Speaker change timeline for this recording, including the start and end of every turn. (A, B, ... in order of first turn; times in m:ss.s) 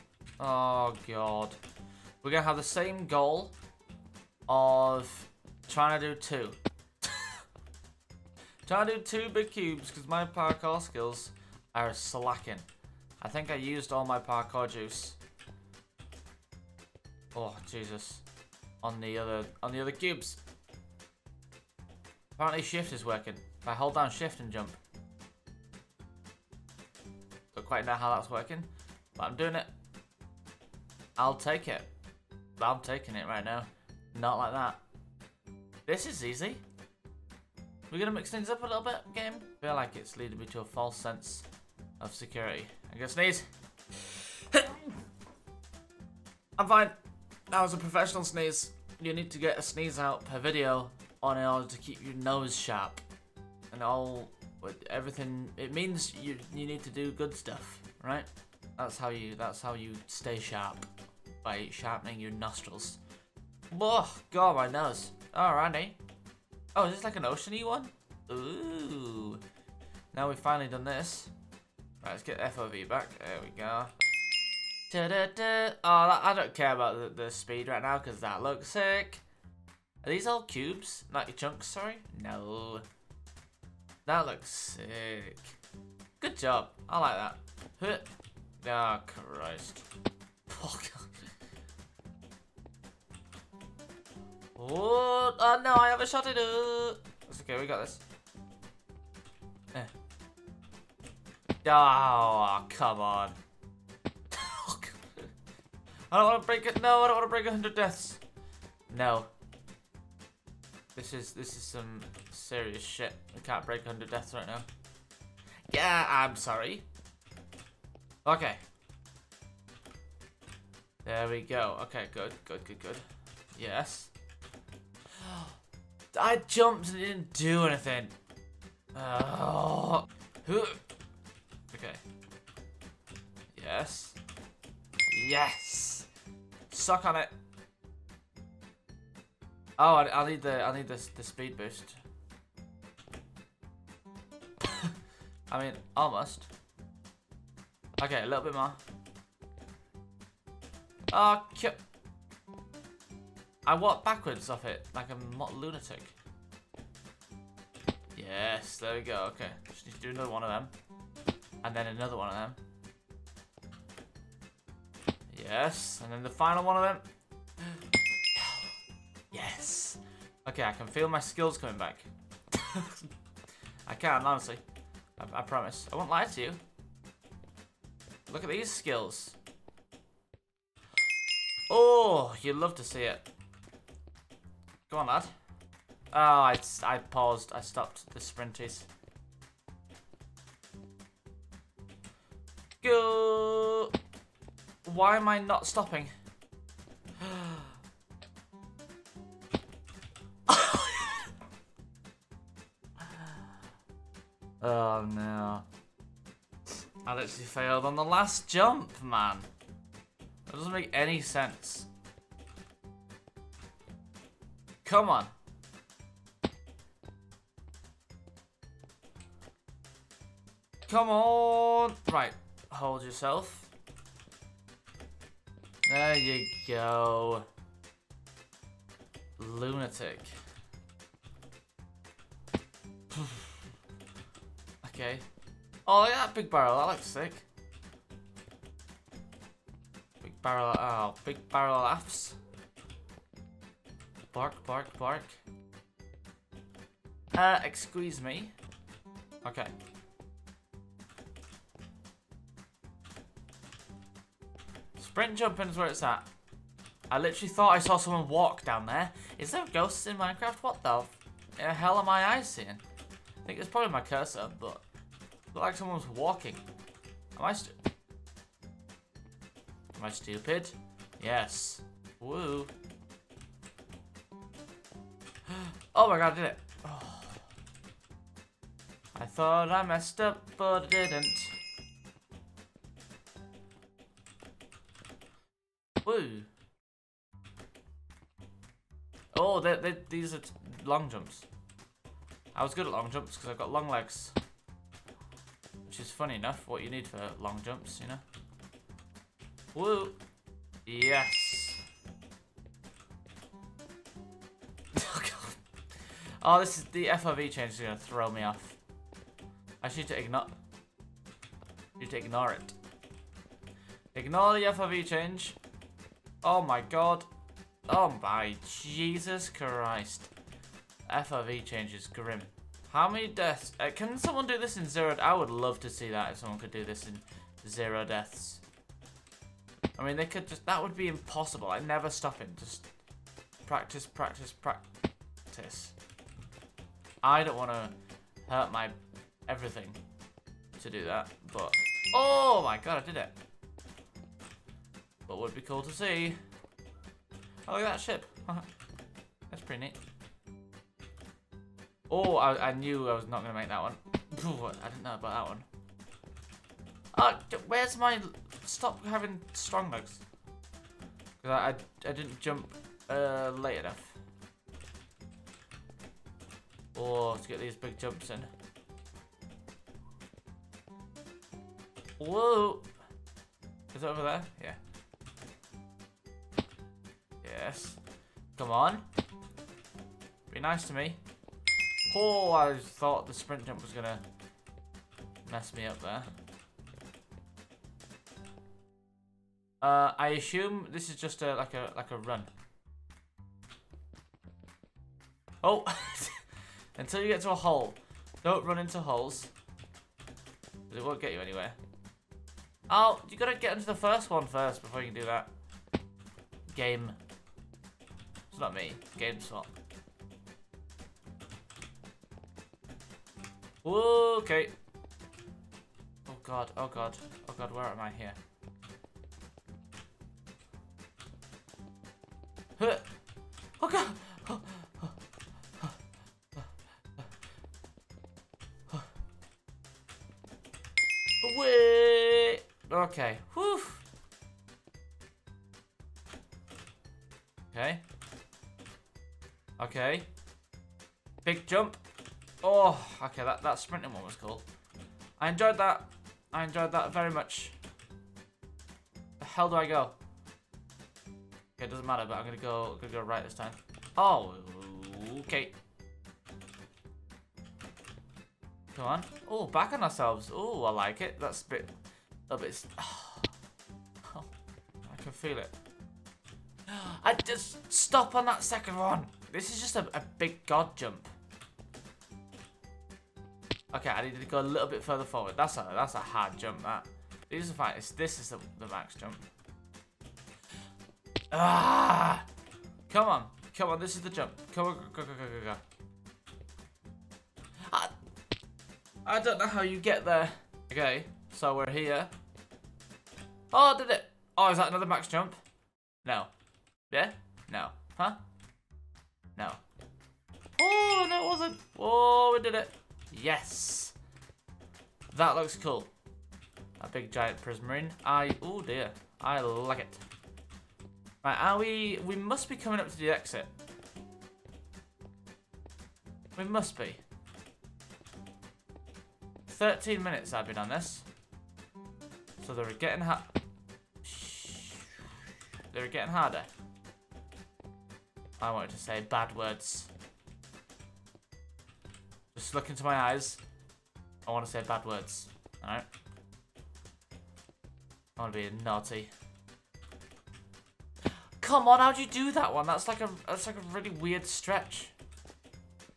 0:00.4-0:01.6 A
0:02.2-0:03.6 A
0:04.5-0:07.4 A
0:08.6-0:12.6 A
0:13.2-0:15.2 A
0:17.3-0:18.2 A
0:18.8-0:20.4 A
0:22.4-0:24.8 A
0:27.5-0:29.7 A
0:31.2-0:31.9 A
0:32.6-0:34.8 A
0:35.9-0:36.6 A
0:37.9-0:41.4 A
0:42.0-0:44.9 A
0:46.6-0:46.9 A
0:47.5-0:53.0 A
0:53.7-1:00.9 A
1:01.4-1:03.0 A
1:03.7-1:06.0 A
1:06.7-1:09.4 A
1:10.1-1:11.3 A
1:12.0-1:13.9 A
1:14.9-1:19.2 A
1:20.0-1:22.8 A
1:24.0-1:25.6 A
1:26.2-1:28.1 A
1:28.6-1:29.8 A
1:30.5-1:31.3 A
1:34.6-1:38.0 A
1:41.6-1:43.4 A
1:44.3-1:45.3 A
1:46.1-1:48.2 A
1:48.9-1:49.3 A
1:51.0-1:54.6 A
1:55.7-1:56.9 A
1:58.2-1:58.6 A
2:01.0-2:04.1 A
2:05.1-2:05.5 A
2:06.1-2:08.1 A
2:08.9-2:10.8 A
2:11.7-2:12.0 A
2:13.5-2:14.2 A
2:15.1-2:16.1 A
2:16.7-2:17.3 A
2:19.8-2:22.0 A
2:24.6-2:25.0 A
2:25.5-2:26.5 A
2:28.0-2:28.8 A
2:31.1-2:31.8 A
2:33.6-2:36.1 A
2:38.2-2:40.7 A
2:41.6-2:42.6 A
2:45.3-2:47.0 A
2:48.3-2:48.7 A
2:49.3-2:53.1 A
2:53.9-2:54.6 A
2:55.2-2:56.6 A
2:58.3-2:59.4 A
3:01.7-3:03.3 A
3:04.9-3:05.3 A
3:06.1-3:08.9 A
3:12.8-3:13.9 A
3:14.8-3:16.1 A
3:17.2-3:17.7 A
3:20.5-3:21.3 A
3:23.0-3:23.4 A
3:24.6-3:25.7 A
3:27.0-3:29.5 A
3:30.5-3:31.9 A
3:34.8-3:35.3 A
3:40.9-3:43.7 A
3:45.9-3:47.5 A
3:49.4-3:50.4 A
3:53.1-3:53.5 A
3:54.8-3:55.2 A
3:55.9-3:57.4 A
4:00.2-4:02.4 A
4:04.3-4:05.4 A
4:07.3-4:08.5 A
4:09.4-4:09.7 A
4:15.0-4:16.3 A
4:17.1-4:22.8 A
4:23.4-4:24.8 A
4:25.5-4:26.6 A
4:27.4-4:27.8 A
4:30.0-4:32.7 A
4:35.5-4:37.4 A
4:39.2-4:41.6 A
4:46.0-4:46.5 A
4:49.3-4:51.5 A
4:52.5-4:54.4 A
4:55.9-4:58.2 A
4:59.7-5:00.2 A
5:00.9-5:01.8 A
5:04.9-5:05.6 A
5:06.4-5:08.8 A
5:09.8-5:10.6 A
5:12.0-5:12.8 A
5:14.1-5:15.6 A
5:16.4-5:17.3 A
5:17.9-5:20.3 A
5:21.1-5:28.6 A
5:30.0-5:32.9 A
5:33.6-5:34.8 A
5:35.5-5:35.9 A
5:37.2-5:37.9 A
5:38.4-5:39.0 A
5:39.5-5:40.0 A
5:40.8-5:43.3 A
5:45.3-5:46.4 A
5:47.7-5:48.7 A
5:49.5-5:50.0 A
5:52.1-5:55.7 A
5:57.1-6:00.2 A
6:01.4-6:04.2 A
6:06.9-6:08.5 A
6:12.2-6:12.9 A
6:13.9-6:14.8 A
6:17.4-6:18.0 A
6:18.6-6:19.1 A
6:20.5-6:21.2 A
6:22.1-6:24.2 A
6:25.4-6:26.3 A
6:29.8-6:32.5 A
6:35.6-6:36.4 A
6:36.9-6:39.5 A
6:40.9-6:41.8 A
6:42.9-6:45.5 A
6:46.7-6:47.2 A
6:48.5-6:49.7 A
6:53.8-6:54.7 A
6:56.3-6:58.4 A
7:02.8-7:03.1 A
7:03.8-7:05.2 A
7:11.4-7:14.0 A
7:17.7-7:18.0 A
7:19.8-7:20.3 A
7:21.4-7:22.0 A
7:22.6-7:24.6 A
7:25.4-7:27.8 A
7:29.4-7:30.2 A
7:31.8-7:35.8 A
7:38.9-7:41.9 A
7:42.5-7:43.5 A
7:44.2-7:44.5 A
7:45.0-7:45.7 A
7:46.9-7:51.3 A
7:53.9-7:59.4 A
8:01.5-8:02.4 A
8:03.1-8:05.8 A
8:07.8-8:08.1 A
8:09.2-8:12.3 A
8:13.7-8:15.6 A
8:16.2-8:16.5 A
8:17.1-8:18.4 A
8:19.6-8:19.8 A
8:20.8-8:24.2 A
8:25.3-8:26.1 A
8:27.0-8:30.2 A
8:31.4-8:33.7 A
8:36.6-8:37.2 A
8:39.7-8:41.2 A
8:42.6-8:43.5 A
8:44.2-8:45.2 A
8:45.9-8:46.7 A
8:48.6-8:50.1 A
8:52.5-8:53.6 A
8:54.4-8:56.1 A
8:58.4-8:59.3 A
9:01.6-9:05.1 A